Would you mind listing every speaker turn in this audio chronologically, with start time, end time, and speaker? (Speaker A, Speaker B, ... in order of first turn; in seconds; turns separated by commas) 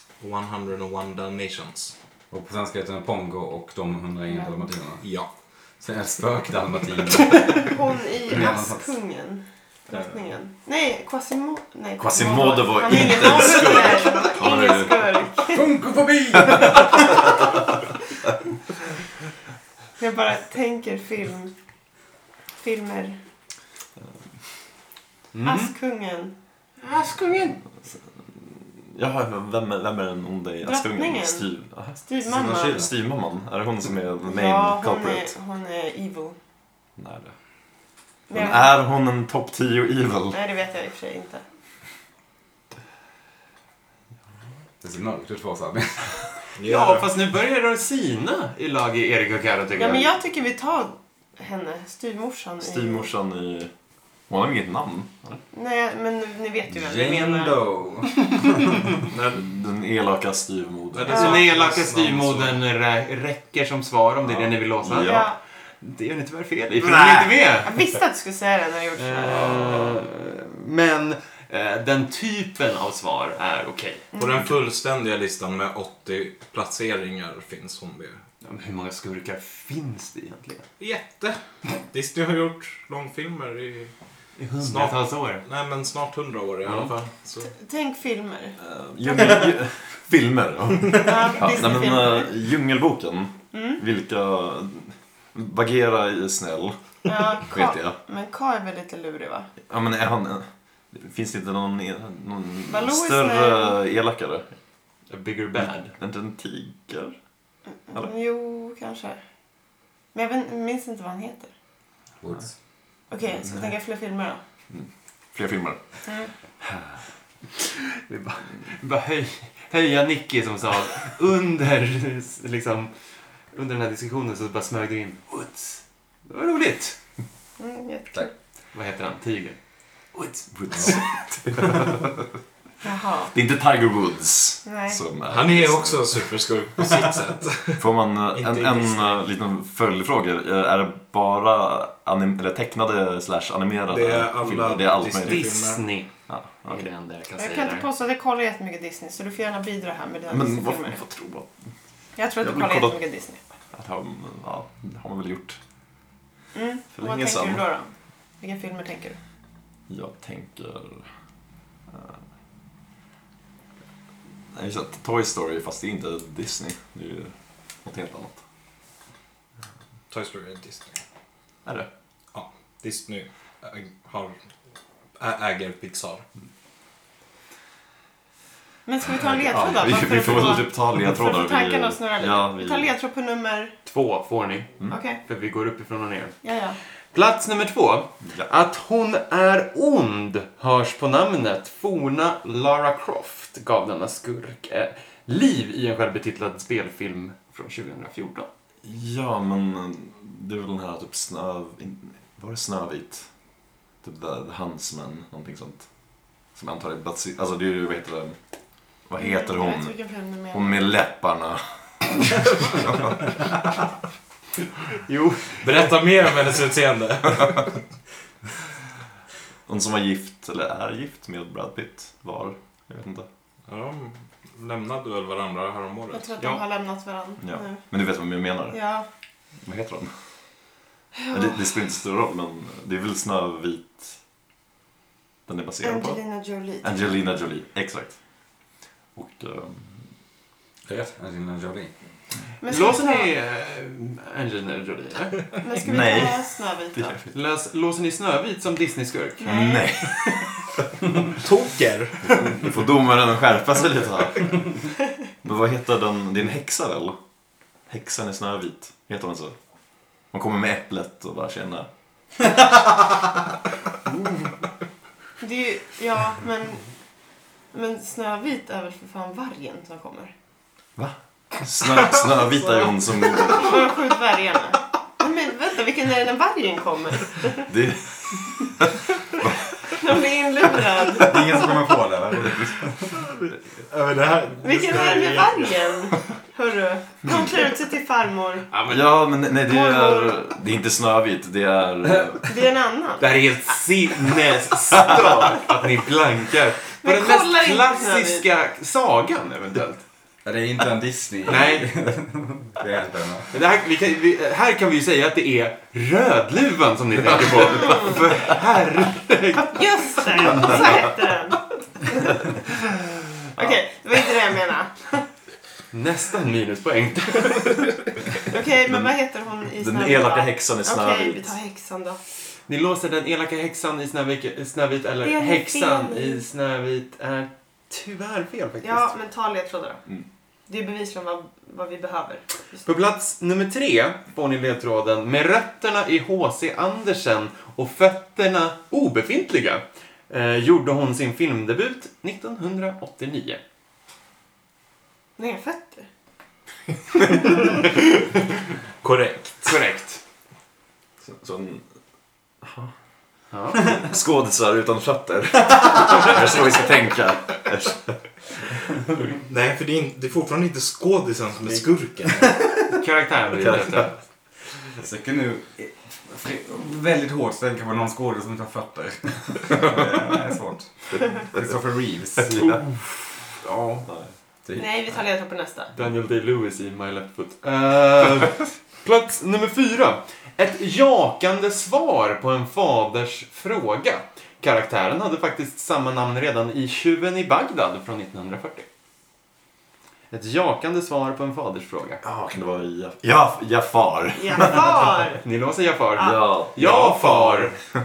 Speaker A: 0.2-1.9, Speaker B: 2.3-5.0, Speaker A: 5.0-5.3, Speaker B: 5.8-8.9, Speaker C: 7.4-15.7, Speaker D: 12.0-15.3, Speaker B: 15.5-17.1, Speaker D: 16.4-16.9, Speaker C: 20.0-21.5, Speaker C: 22.6-23.2, Speaker E: 25.3-25.7, Speaker C: 25.4-26.3, Speaker E: 26.8-27.6, Speaker D: 28.9-35.3, Speaker C: 30.6-31.5, Speaker C: 32.1-32.9, Speaker B: 32.3-32.9, Speaker C: 34.2-36.4, Speaker D: 37.0-37.3, Speaker C: 38.3-38.7, Speaker D: 38.3-40.4, Speaker C: 40.3-41.4, Speaker B: 44.8-46.2, Speaker A: 46.6-47.1, Speaker E: 46.6-50.1, Speaker C: 49.8-53.1, Speaker D: 52.6-53.7, Speaker D: 54.3-55.4, Speaker C: 55.5-57.6, Speaker B: 56.7-58.9, Speaker A: 59.1-59.4, Speaker D: 59.3-61.2, Speaker A: 60.9-62.6, Speaker E: 61.1-65.3, Speaker D: 64.2-65.3, Speaker C: 65.0-65.4, Speaker E: 65.8-67.8, Speaker C: 67.6-69.7, Speaker E: 69.0-74.1, Speaker D: 69.2-70.0, Speaker C: 74.1-74.5, Speaker A: 74.2-78.2, Speaker E: 78.4-80.7, Speaker A: 80.8-81.4, Speaker A: 81.9-83.9, Speaker E: 84.4-85.4, Speaker A: 84.6-87.5, Speaker E: 86.6-86.9, Speaker C: 87.4-88.6, Speaker D: 88.6-96.8, Speaker C: 89.1-89.5, Speaker C: 90.9-92.3, Speaker C: 93.5-93.8, Speaker C: 97.0-99.5, Speaker D: 97.4-98.0, Speaker D: 99.7-104.5, Speaker C: 102.7-103.8, Speaker E: 105.1-105.9, Speaker D: 105.9-107.2, Speaker C: 107.9-109.2, Speaker C: 110.1-111.5, Speaker B: 112.2-112.5, Speaker C: 113.1-114.4, Speaker D: 113.4-113.8, Speaker D: 114.7-115.8, Speaker E: 117.6-122.9, Speaker E: 123.5-127.0, Speaker C: 127.6-128.3, Speaker E: 128.7-129.6, Speaker E: 130.1-131.0, Speaker D: 130.5-132.1, Speaker C: 132.8-133.3, Speaker D: 133.3-136.2, Speaker C: 134.7-135.0, Speaker A: 135.3-139.2, Speaker D: 137.8-145.5, Speaker A: 143.9-145.8, Speaker E: 145.2-146.1, Speaker D: 146.3-146.9, Speaker E: 146.6-147.9, Speaker C: 147.4-151.0, Speaker D: 150.3-151.5, Speaker C: 152.2-153.4, Speaker D: 152.4-153.0, Speaker D: 153.7-155.6, Speaker C: 156.5-159.2, Speaker D: 156.9-157.7, Speaker D: 159.9-161.1, Speaker D: 164.5-168.4, Speaker A: 170.1-171.0, Speaker A: 172.3-174.4, Speaker A: 175.2-176.2, Speaker C: 178.9-183.8, Speaker D: 179.2-182.9, Speaker E: 183.8-184.7, Speaker C: 184.9-185.2, Speaker E: 185.2-186.4, Speaker C: 186.4-186.8, Speaker E: 187.1-198.5, Speaker D: 198.8-203.3, Speaker D: 204.0-205.9, Speaker D: 206.5-208.4, Speaker D: 209.1-213.2, Speaker C: 209.2-210.9, Speaker E: 215.1-215.9, Speaker A: 215.6-217.8, Speaker D: 219.7-223.3, Speaker A: 223.7-226.4, Speaker C: 226.1-227.8, Speaker D: 227.4-228.8, Speaker C: 228.7-229.1, Speaker D: 229.6-230.1, Speaker C: 231.2-231.6, Speaker D: 231.3-234.2, Speaker D: 235.5-236.2, Speaker C: 235.8-237.1, Speaker D: 236.8-238.2, Speaker D: 239.2-240.1, Speaker B: 240.9-241.9, Speaker C: 242.6-243.3, Speaker E: 242.7-245.5, Speaker C: 245.6-247.2, Speaker D: 245.8-247.3, Speaker E: 247.3-249.6, Speaker C: 249.4-249.9, Speaker D: 249.5-250.5, Speaker A: 251.3-252.4, Speaker D: 252.4-254.9, Speaker D: 255.4-257.2, Speaker D: 257.9-259.6, Speaker D: 260.3-261.9, Speaker C: 265.4-266.9, Speaker C: 267.7-270.3, Speaker D: 271.0-273.9, Speaker C: 272.6-277.7, Speaker D: 277.7-279.6, Speaker C: 279.9-281.7, Speaker B: 281.2-283.1, Speaker A: 283.9-285.9, Speaker C: 284.6-288.7, Speaker D: 288.8-292.6, Speaker C: 289.6-290.4, Speaker C: 292.4-293.3, Speaker E: 293.2-300.0, Speaker C: 297.0-298.4, Speaker B: 300.4-303.5, Speaker E: 301.5-301.9, Speaker E: 303.5-311.0, Speaker C: 307.6-308.2, Speaker C: 309.7-312.4, Speaker D: 310.7-311.0, Speaker C: 313.6-315.3, Speaker E: 315.9-317.9, Speaker C: 318.5-322.2, Speaker D: 318.9-319.1, Speaker D: 319.8-321.6, Speaker E: 322.7-329.1, Speaker C: 325.2-326.5, Speaker C: 328.8-330.0, Speaker C: 330.7-332.8, Speaker E: 332.8-343.6, Speaker C: 345.4-346.1, Speaker A: 349.0-349.8, Speaker E: 349.6-350.2, Speaker D: 351.2-351.9, Speaker D: 352.6-352.9, Speaker E: 353.5-353.8, Speaker D: 353.8-358.2, Speaker A: 359.4-362.6, Speaker E: 362.9-364.1, Speaker B: 365.0-372.9, Speaker D: 372.4-372.8, Speaker E: 373.6-374.1, Speaker D: 374.1-374.3, Speaker B: 374.6-375.2, Speaker C: 374.7-375.9, Speaker E: 375.9-388.9, Speaker E: 390.3-392.2, Speaker D: 392.2-395.2, Speaker C: 394.4-395.4, Speaker E: 395.4-397.8, Speaker C: 396.1-396.4, Speaker D: 396.2-398.0